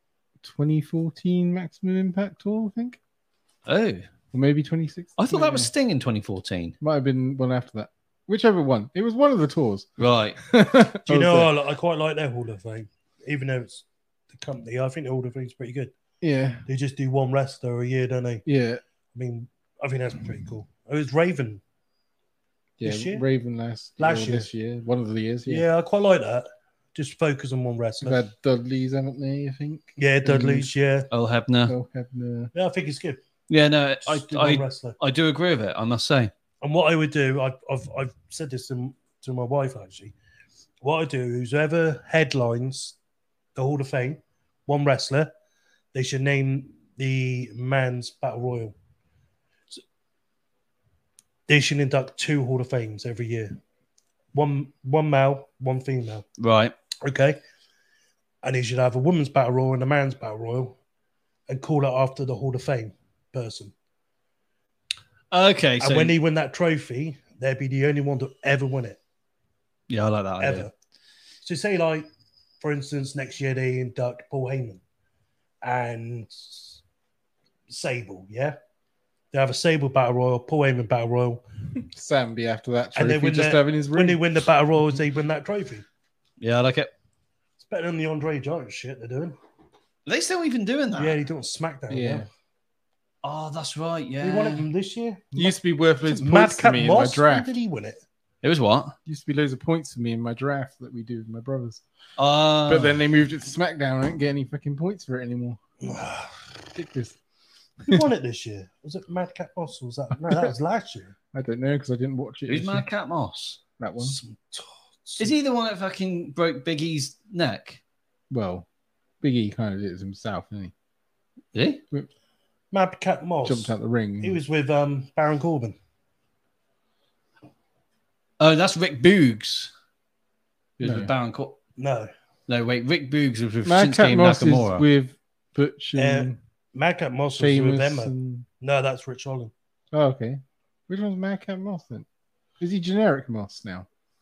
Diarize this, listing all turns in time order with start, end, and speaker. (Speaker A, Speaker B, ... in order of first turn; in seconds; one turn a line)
Speaker A: 0.4-3.0
Speaker B: 3.6-4.1
Speaker A: 4.3-5.7
Speaker B: 5.2-6.7
Speaker A: 6.8-11.5
Speaker B: 10.0-10.4
Speaker C: 11.1-15.9
Speaker A: 16.2-16.6
Speaker C: 16.7-18.4
Speaker A: 18.4-18.8
Speaker C: 19.1-21.6
Speaker A: 22.8-25.6
Speaker C: 22.8-23.2
Speaker C: 24.0-24.5
Speaker C: 25.5-28.2
Speaker A: 28.0-30.7
Speaker C: 30.0-31.1
Speaker B: 31.1-31.7
Speaker A: 31.7-32.5
Speaker C: 32.5-33.2
Speaker B: 33.5-36.3
Speaker C: 34.0-35.0
Speaker C: 36.6-40.1
Speaker C: 40.8-43.0
Speaker C: 43.5-45.3
Speaker C: 45.9-48.7
Speaker C: 51.5-53.6
Speaker C: 54.3-56.2
Speaker B: 56.4-56.7
Speaker C: 57.0-57.4
Speaker C: 58.4-60.8
Speaker C: 61.5-63.7
Speaker B: 65.3-66.2
Speaker C: 65.8-69.0
Speaker B: 69.9-70.7
Speaker C: 70.4-70.7
Speaker C: 71.4-72.1
Speaker C: 72.6-74.8
Speaker C: 75.6-76.8
Speaker C: 77.7-78.5
Speaker C: 79.3-81.4
Speaker A: 81.8-84.3
Speaker C: 82.9-85.8
Speaker B: 86.4-86.9
Speaker C: 87.6-89.3
Speaker B: 90.0-91.2
Speaker C: 91.0-92.2
Speaker A: 91.9-92.3
Speaker B: 93.2-94.6
Speaker C: 94.2-95.5
Speaker A: 95.3-97.5
Speaker C: 96.0-98.0
Speaker B: 98.4-99.0
Speaker A: 99.0-101.8
Speaker B: 102.2-103.0
Speaker A: 102.7-105.6
Speaker C: 105.8-106.3
Speaker A: 106.7-107.2
Speaker C: 107.9-111.1
Speaker A: 111.3-112.9
Speaker B: 112.5-113.6
Speaker A: 113.8-114.2
Speaker C: 114.0-115.3
Speaker B: 115.2-117.8
Speaker A: 118.3-118.7
Speaker A: 119.2-120.7
Speaker B: 121.5-121.8
Speaker C: 122.7-125.8
Speaker A: 123.4-124.4
Speaker B: 128.4-129.7
Speaker B: 130.8-131.6
Speaker A: 130.8-131.1
Speaker C: 131.8-132.1
Speaker B: 132.5-134.8
Speaker A: 133.6-136.4
Speaker C: 135.9-139.5
Speaker A: 137.4-138.4
Speaker A: 139.9-142.1
Speaker A: 142.6-143.9